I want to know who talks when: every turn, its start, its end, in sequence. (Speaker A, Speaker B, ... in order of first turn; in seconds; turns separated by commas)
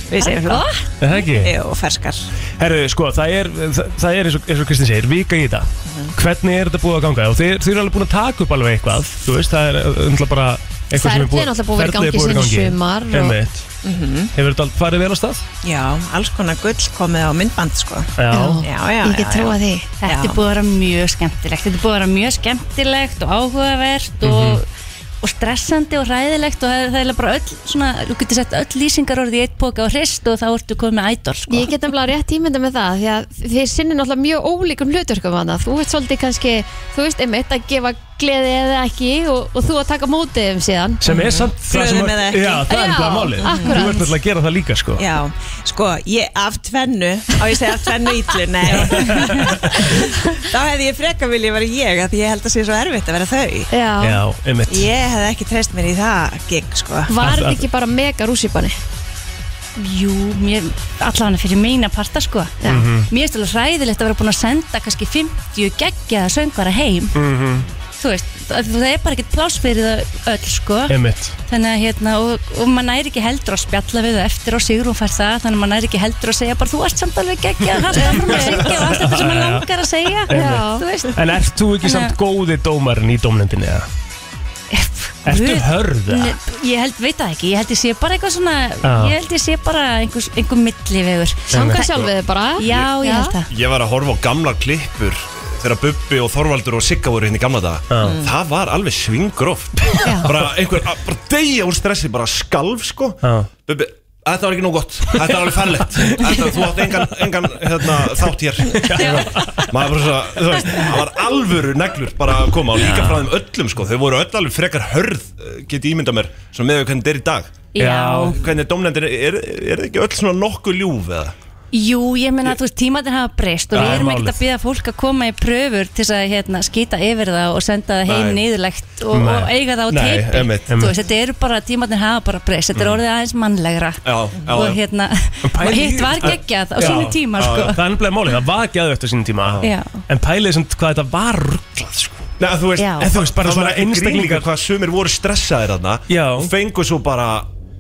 Speaker A: 0.1-0.8, Speaker B: 0.2-0.6, Speaker C: 1.0-1.6, Speaker D: 1.4-2.3, Speaker C: 2.6-13.6, Speaker A: 10.9-13.4, Speaker D: 13.8-14.3, Speaker C: 14.3-15.4, Speaker D: 15.6-20.4, Speaker C: 18.2-18.6, Speaker A: 18.3-20.0, Speaker B: 20.0-24.7, Speaker C: 24.2-24.6, Speaker B: 25.2-31.7, Speaker A: 31.5-41.0, Speaker C: 41.0-45.0, Speaker D: 41.1-42.6, Speaker A: 42.7-44.0, Speaker D: 43.4-43.9, Speaker D: 45.0-49.9, Speaker C: 48.7-49.9, Speaker D: 50.5-53.7, Speaker A: 53.7-54.2, Speaker C: 54.0-54.9, Speaker D: 54.7-57.1, Speaker A: 57.1-58.8, Speaker C: 57.2-57.6, Speaker B: 59.8-67.2, Speaker A: 62.6-62.9, Speaker C: 62.7-63.1, Speaker C: 67.1-67.7, Speaker B: 68.0-71.0, Speaker C: 70.9-71.4, Speaker B: 71.5-81.2, Speaker C: 77.8-79.7, Speaker C: 80.3-83.9, Speaker A: 80.3-81.0, Speaker B: 81.8-82.1, Speaker B: 84.7-91.9, Speaker C: 85.2-86.4, Speaker C: 88.8-89.2, Speaker C: 91.5-91.8, Speaker A: 91.5-93.4, Speaker B: 92.6-93.5, Speaker E: 93.5-117.6, Speaker C: 97.9-98.2, Speaker C: 99.9-100.4, Speaker B: 100.0-100.3, Speaker C: 103.2-103.5, Speaker C: 106.0-107.1, Speaker C: 108.7-109.7, Speaker B: 109.0-109.7, Speaker C: 110.6-111.0, Speaker C: 112.7-113.3, Speaker B: 117.7-118.4, Speaker C: 117.8-118.4, Speaker E: 118.3-121.3, Speaker B: 121.7-137.8, Speaker C: 123.7-124.4, Speaker E: 128.1-128.5, Speaker C: 129.1-129.5, Speaker E: 129.9-130.9, Speaker C: 130.7-130.9, Speaker E: 132.7-133.0, Speaker E: 134.0-134.8, Speaker C: 135.4-142.3, Speaker E: 136.2-137.7, Speaker E: 139.4-139.7, Speaker B: 139.6-140.0, Speaker E: 142.4-147.5, Speaker B: 142.8-143.1, Speaker C: 143.0-144.5, Speaker C: 146.1-146.5